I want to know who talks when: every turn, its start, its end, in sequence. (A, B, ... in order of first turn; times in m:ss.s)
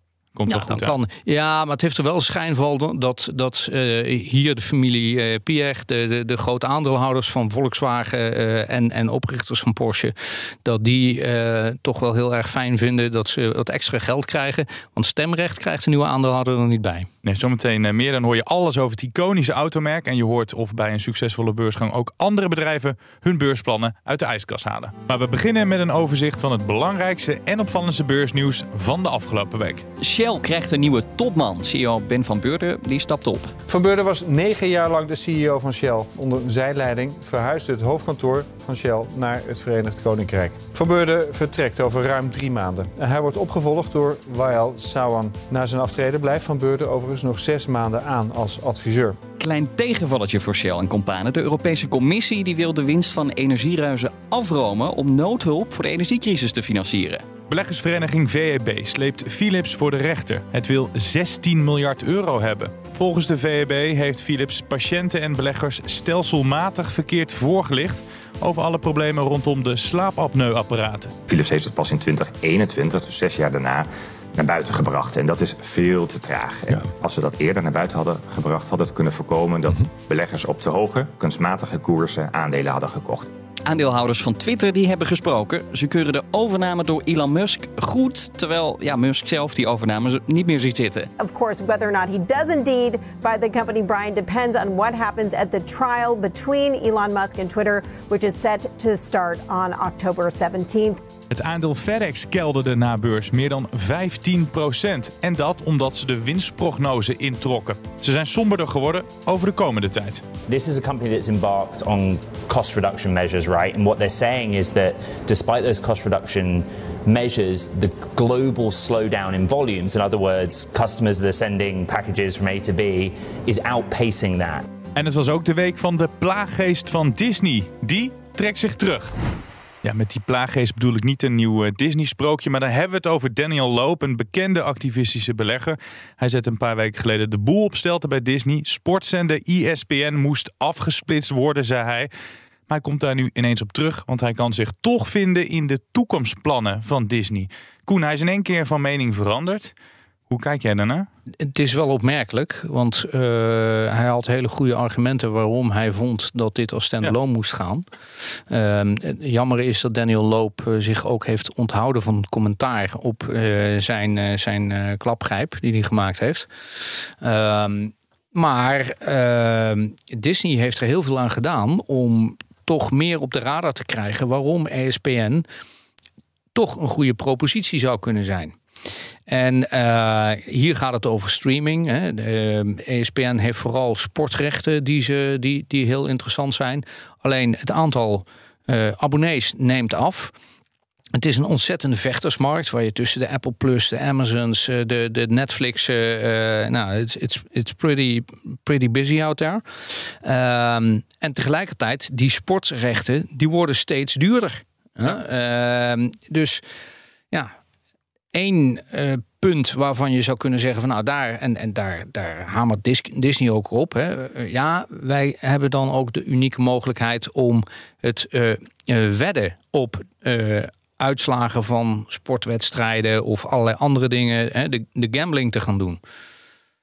0:00.3-0:01.0 A
0:00.5-0:17.1 B
0:17.2-0:29.8 A
0:30.0-0:33.5 C
0:33.7-0:49.2 D
0:49.4-0:57.2 C
0:57.5-1:11.1 A
1:11.3-1:23.3 E
1:23.6-1:31.1 C
1:31.2-1:41.0 F
1:41.3-1:50.2 A
1:50.5-2:04.6 G
2:04.9-2:09.1 A
2:09.8-2:22.1 A
2:22.7-2:29.7 A
2:30.3-2:31.1 A
2:31.4-2:37.8 B
2:38.5-2:46.5 B
2:47.2-2:55.4 B
2:56.5-2:58.6 B
2:59.3-3:10.3 B
3:11.2-3:26.6 B
3:28.3-3:46.0 B